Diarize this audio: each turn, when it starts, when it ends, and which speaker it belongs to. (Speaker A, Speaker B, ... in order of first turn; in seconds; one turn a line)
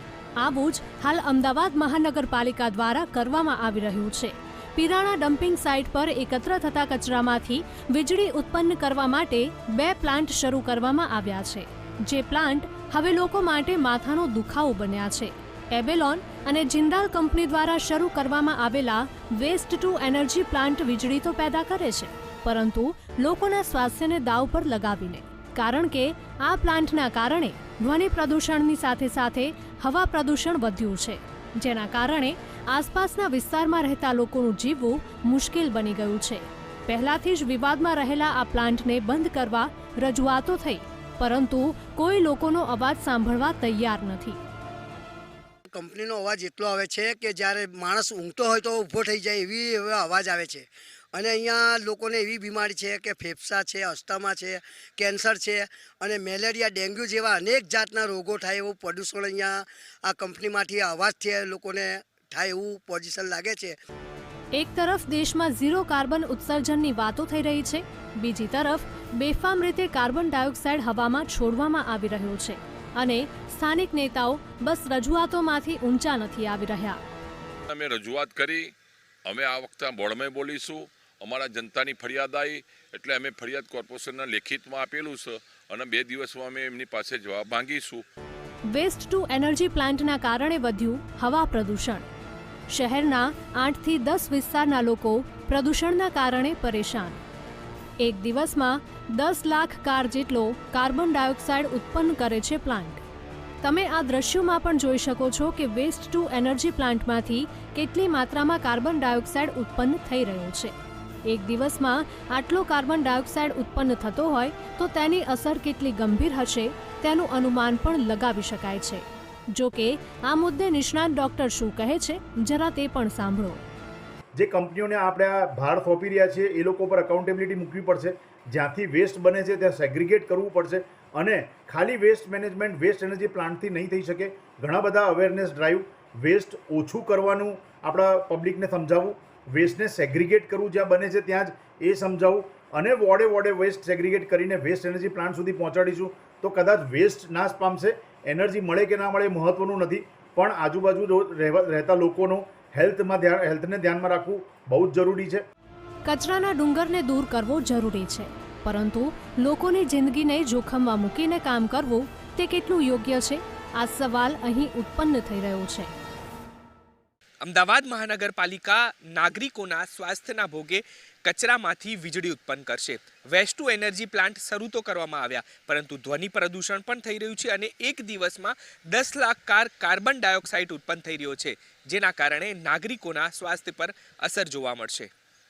Speaker A: 0.4-44.4
Speaker B: 45.7-63.8
Speaker A: 64.5-77.0
Speaker C: 77.7-78.7
Speaker C: 79.3-88.0
Speaker A: 88.7-92.0
Speaker A: 92.7-97.2
Speaker A: 98.0-103.0
Speaker A: 103.6-110.7
Speaker A: 111.3-119.0
Speaker A: 119.5-123.6
Speaker D: 124.3-155.4
Speaker A: 156.1-165.9
Speaker E: 167.4-185.1